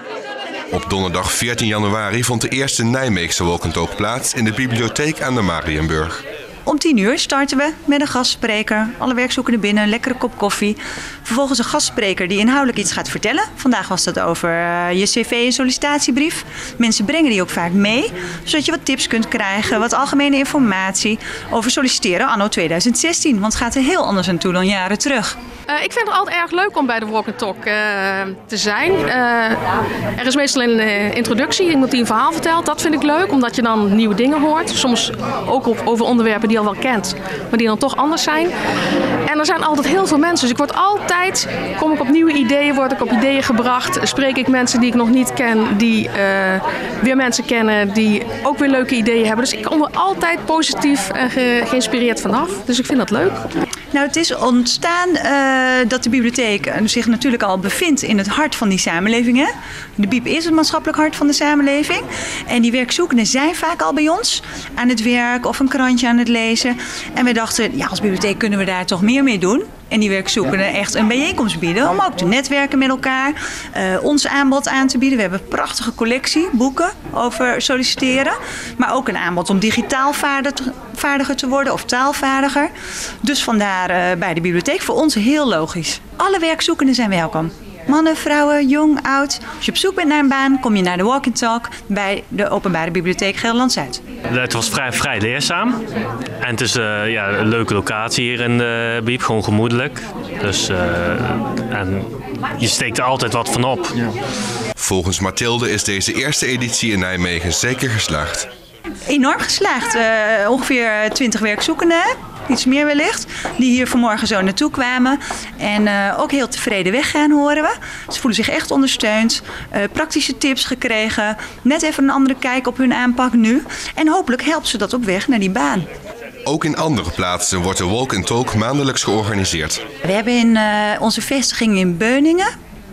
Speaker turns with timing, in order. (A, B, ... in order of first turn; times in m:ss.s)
0:00.7-0:06.2 A
0:06.7-0:25.4 B
0:25.7-0:29.6 C
0:30.2-0:38.5 C
0:39.2-0:53.4 C
0:53.9-1:22.7 B
1:23.2-1:34.0 B
1:34.3-1:35.8 D
1:36.4-1:44.1 D
1:44.8-1:48.5 A
1:49.0-2:05.9 B
2:06.4-2:09.8 A
2:10.0-2:12.5 B